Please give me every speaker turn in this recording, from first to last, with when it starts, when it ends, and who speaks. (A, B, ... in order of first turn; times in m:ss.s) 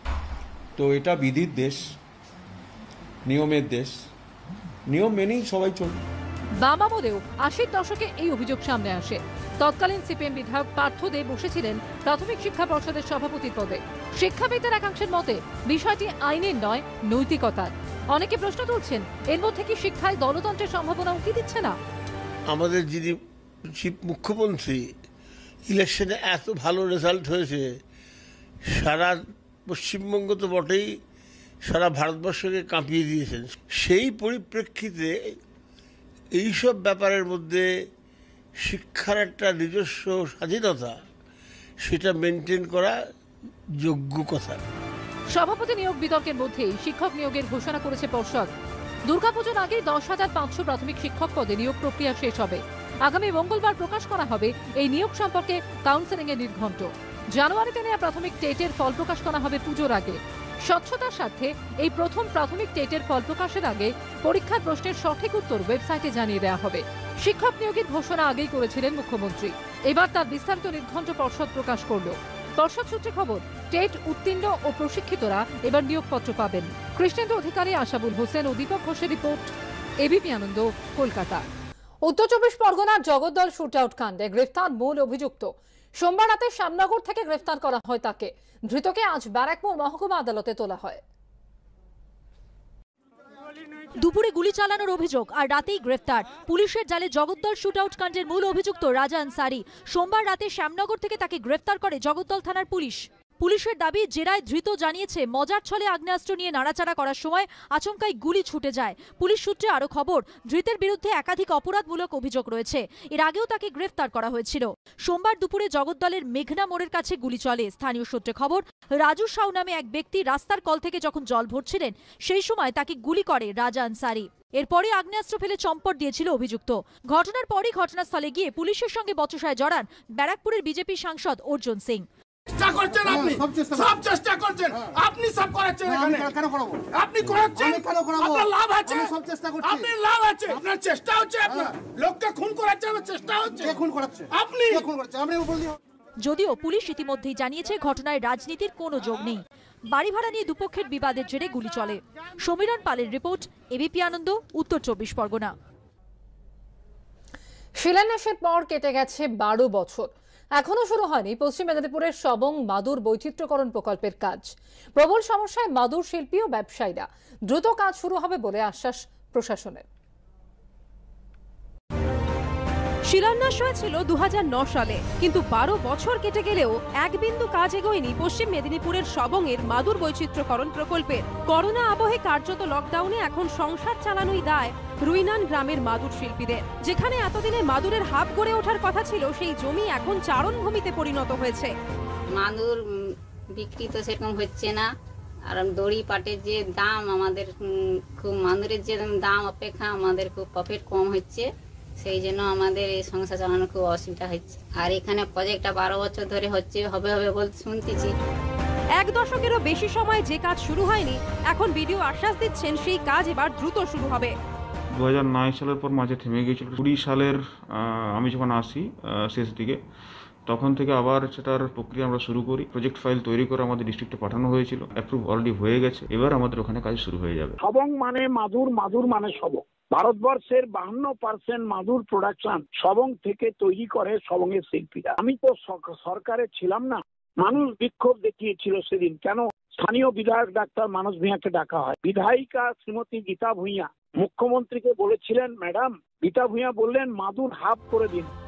0:00.8-0:01.8 A
0:03.3-0:03.9 A
0:04.9-0:05.9 A
0:06.6-0:21.8 B
0:22.5-0:23.2 C
0:23.8-0:24.9 C
0:25.7-0:27.7 C
0:28.7-0:31.0 C
0:31.6-0:35.2 C
0:36.3-0:37.7 C
0:38.6-0:40.9 C
0:41.8-0:43.0 C
0:43.8-0:44.6 C
0:45.3-0:48.5 B
0:49.1-1:19.5 B
1:20.0-1:21.4 B
1:22.0-1:31.0 B
1:34.0-2:12.0 D
2:12.8-2:13.3 E
2:12.8-2:14.0 F
2:13.9-2:16.1 E
2:14.7-2:15.0 F
2:15.8-2:16.8 F
2:17.1-2:19.1 E
2:17.3-2:20.8 F
2:19.6-2:21.4 E
2:21.4-2:21.8 F
2:22.1-2:23.6 E
2:23.4-2:25.2 F
2:26.2-2:35.5 D
2:37.8-2:49.8 B
2:53.0-3:11.7 G
3:12.3-3:13.0 H
3:13.5-3:14.9 H
3:15.5-3:21.5 H
3:22.0-3:28.1 H
3:29.0-3:34.3 G
3:34.9-3:39.8 I
3:40.4-3:47.6 I
3:47.6-4:08.3 F